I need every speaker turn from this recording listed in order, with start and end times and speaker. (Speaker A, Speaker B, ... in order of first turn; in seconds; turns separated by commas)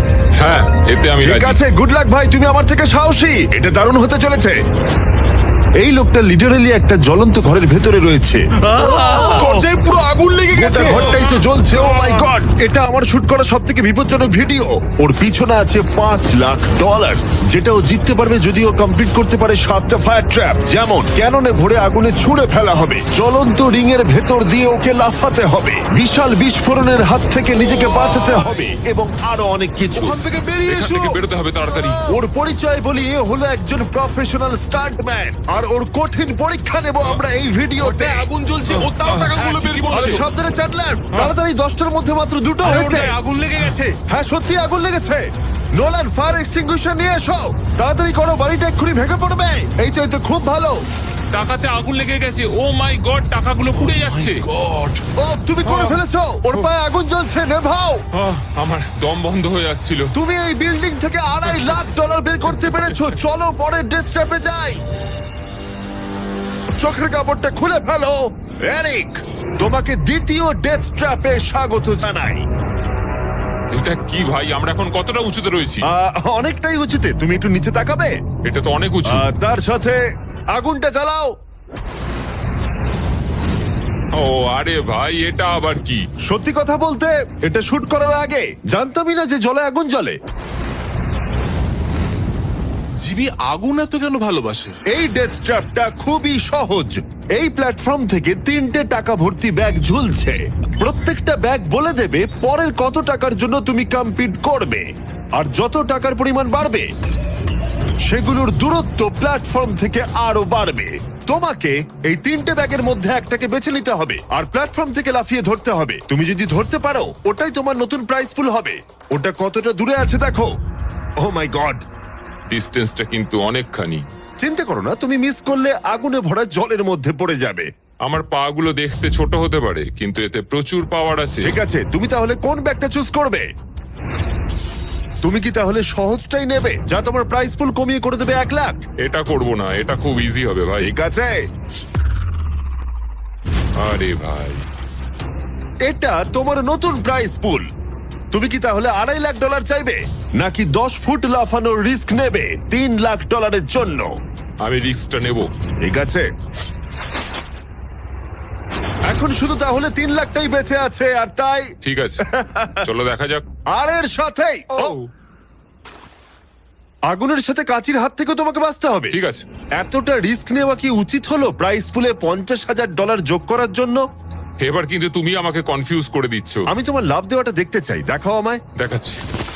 Speaker A: 0.3-1.6, Speaker B: 1.2-4.6, Speaker B: 5.8-9.6, Speaker C: 8.6-12.2, Speaker B: 10.5-30.2, Speaker C: 28.1-28.6, Speaker C: 29.9-31.1, Speaker A: 30.7-32.0, Speaker B: 32.1-38.3, Speaker C: 37.8-40.2, Speaker A: 38.7-39.9, Speaker B: 39.9-43.1, Speaker C: 42.6-44.0, Speaker B: 44.1-50.8, Speaker A: 51.3-54.5, Speaker C: 53.9-55.0, Speaker B: 55.2-58.0, Speaker A: 55.6-56.0, Speaker A: 58.1-60.1, Speaker B: 60.1-64.8, Speaker A: 61.4-61.8, Speaker A: 62.5-63.1, Speaker B: 66.8-72.4, Speaker A: 73.7-75.8, Speaker B: 75.9-78.1, Speaker A: 78.4-79.2, Speaker B: 79.1-80.0, Speaker B: 80.5-81.3, Speaker A: 84.1-86.0, Speaker B: 86.3-90.2, Speaker C: 93.0-94.8, Speaker B: 94.9-106.9, Speaker B: 108.1-120.5, Speaker B: 121.2-121.8, Speaker A: 122.5-124.0, Speaker B: 124.4-127.7, Speaker A: 128.1-131.5, Speaker B: 131.4-133.4, Speaker B: 135.2-138.8, Speaker A: 139.0-140.9, Speaker B: 140.8-141.3, Speaker A: 143.8-144.6, Speaker B: 145.9-147.7, Speaker B: 148.3-154.1, Speaker A: 154.6-155.5, Speaker B: 155.8-156.2, Speaker B: 159.1-161.7, Speaker A: 161.8-162.2, Speaker B: 162.2-162.9, Speaker A: 162.8-163.4, Speaker B: 163.7-164.9, Speaker A: 164.7-165.1, Speaker B: 167.1-169.2, Speaker A: 169.1-169.4, Speaker B: 169.8-174.0, Speaker A: 174.6-176.6, Speaker B: 176.7-178.6, Speaker A: 178.8-179.2